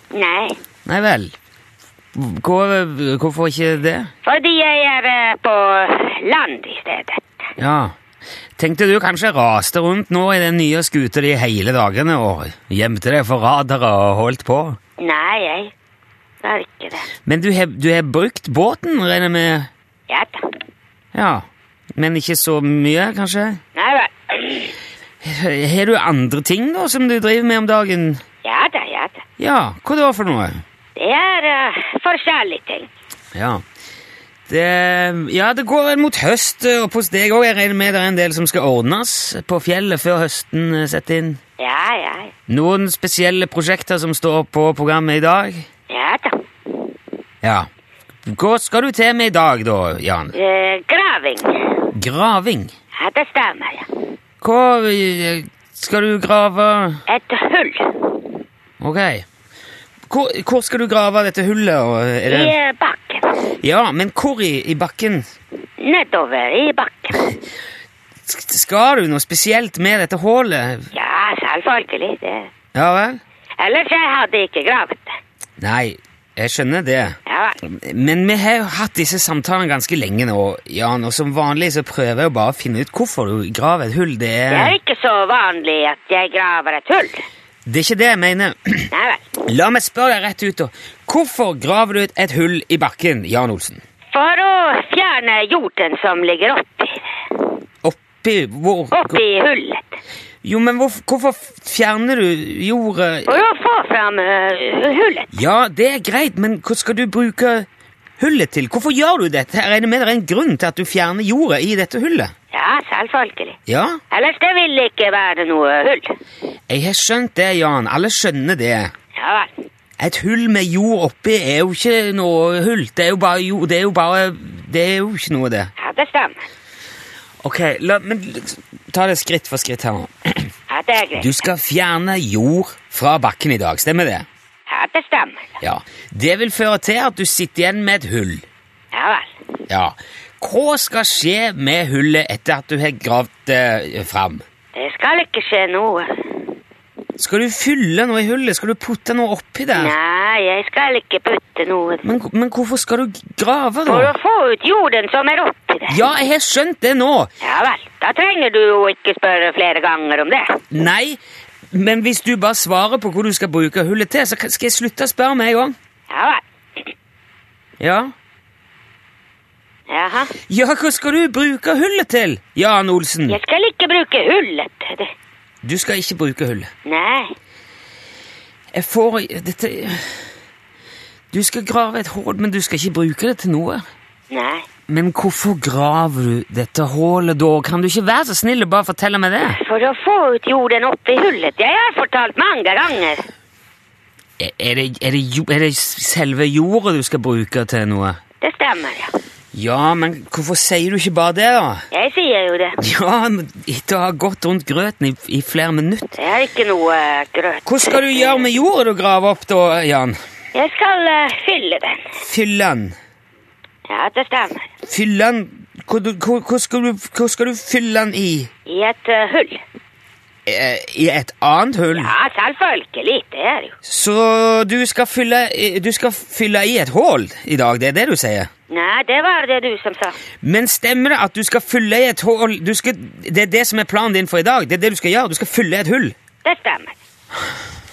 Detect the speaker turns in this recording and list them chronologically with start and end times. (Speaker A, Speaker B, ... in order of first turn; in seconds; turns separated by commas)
Speaker A: 0.1-0.6, Speaker B: 0.8-1.3, Speaker B: 2.1-4.1, Speaker A: 4.2-7.2, Speaker B: 7.6-7.9, Speaker B: 8.6-14.8, Speaker A: 15.0-15.7, Speaker A: 16.4-17.1, Speaker B: 17.2-19.7, Speaker A: 20.1-20.4, Speaker B: 21.1-23.6, Speaker A: 23.8-24.7, Speaker B: 25.2-28.2, Speaker A: 28.4-29.2, Speaker B: 29.4-30.6, Speaker A: 30.9-32.9, Speaker B: 33.3-33.6, Speaker B: 34.5-41.4, Speaker A: 41.6-42.3, Speaker B: 42.5-45.6, Speaker A: 45.9-46.3, Speaker B: 47.4-47.7, Speaker B: 48.2-50.4, Speaker A: 50.3-51.9, Speaker B: 51.9-52.7, Speaker A: 53.0-53.9, Speaker B: 54.4-57.0, Speaker A: 57.1-58.2, Speaker B: 58.8-59.2, Speaker B: 60.1-62.5, Speaker A: 62.3-63.3, Speaker B: 63.6-65.3, Speaker A: 65.8-67.2, Speaker B: 68.2-70.9, Speaker A: 70.9-72.5, Speaker B: 72.7-73.2, Speaker A: 73.6-75.1, Speaker B: 75.6-84.7, Speaker A: 77.2-77.6, Speaker A: 84.5-87.2, Speaker B: 87.7-88.9, Speaker A: 88.9-89.2, Speaker B: 89.4-93.8, Speaker A: 94.1-97.4, Speaker B: 97.8-99.2, Speaker A: 98.9-100.0, Speaker B: 100.4-103.3, Speaker A: 103.2-105.3, Speaker B: 105.3-107.7, Speaker B: 108.2-112.3, Speaker A: 112.5-113.6, Speaker B: 113.7-114.0, Speaker A: 114.1-116.1, Speaker B: 116.7-118.9, Speaker A: 119.2-119.5, Speaker B: 120.0-125.7, Speaker A: 125.8-126.4, Speaker B: 127.4-130.5, Speaker A: 130.7-131.4, Speaker B: 131.2-134.2, Speaker A: 134.7-135.5, Speaker B: 135.6-138.4, Speaker A: 138.9-139.3, Speaker B: 139.7-144.4, Speaker A: 144.7-146.3, Speaker B: 147.2-149.9, Speaker A: 149.7-152.0, Speaker B: 152.0-154.1, Speaker A: 153.8-156.0, Speaker B: 155.9-157.3, Speaker A: 157.4-160.6, Speaker B: 160.7-161.2, Speaker B: 161.7-165.7, Speaker A: 166.1-166.9, Speaker B: 167.8-168.1, Speaker A: 169.9-170.3, Speaker B: 170.5-173.4, Speaker A: 173.3-175.1, Speaker B: 175.6-176.7, Speaker A: 176.8-177.3, Speaker B: 178.7-180.2, Speaker B: 181.3-183.8, Speaker A: 184.3-184.7, Speaker B: 184.9-189.6, Speaker A: 189.4-193.3, Speaker B: 194.4-198.2, Speaker A: 198.4-199.1, Speaker B: 199.5-201.8, Speaker A: 201.9-202.8, Speaker B: 202.8-206.1, Speaker A: 206.1-208.5, Speaker B: 207.6-210.2, Speaker A: 210.5-212.2, Speaker B: 212.2-212.9, Speaker A: 213.9-214.7, Speaker B: 214.8-218.5, Speaker A: 218.7-219.6, Speaker B: 220.4-222.1, Speaker A: 221.9-223.7, Speaker B: 223.8-228.5, Speaker A: 228.7-230.2, Speaker B: 230.4-236.2, Speaker A: 236.4-236.9